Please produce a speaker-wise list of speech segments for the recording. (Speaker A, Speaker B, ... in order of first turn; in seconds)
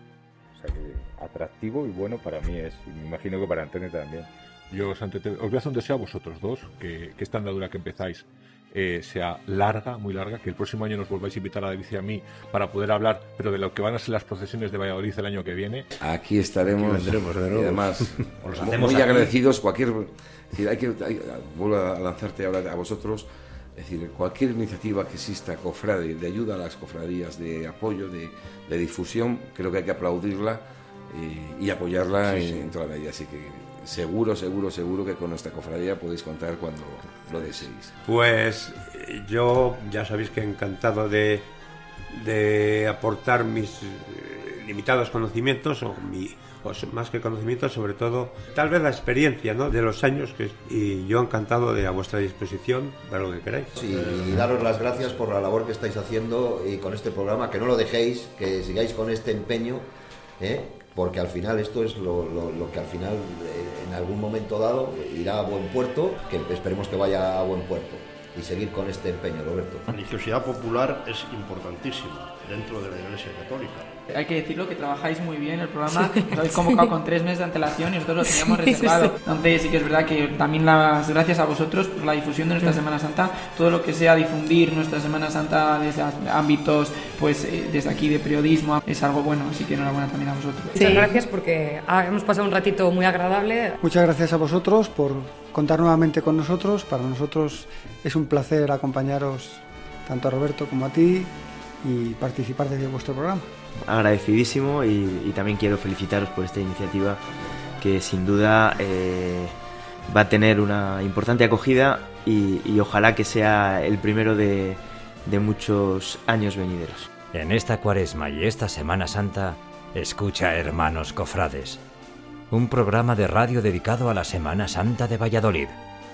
Speaker A: 0.6-4.3
Speaker B: 4.7-15.9
Speaker C: 16.0-37.9
Speaker D: 16.6-19.1, 32.2-32.8, 53.8-55.3, 69.9-73.9
Speaker E: 38.0-41.5, 42.1-53.7
Speaker F: 53.8-59.9, 60.4-69.9
Speaker G: 74.1-91.1
Speaker H: 78.5-79.1, 90.7-93.8
Speaker I: 93.8-101.3, 101.8-103.5
Speaker J: 103.8-107.2, 107.8-109.5, 110.1-117.1
Speaker K: 117.3-121.8, 122.5-125.8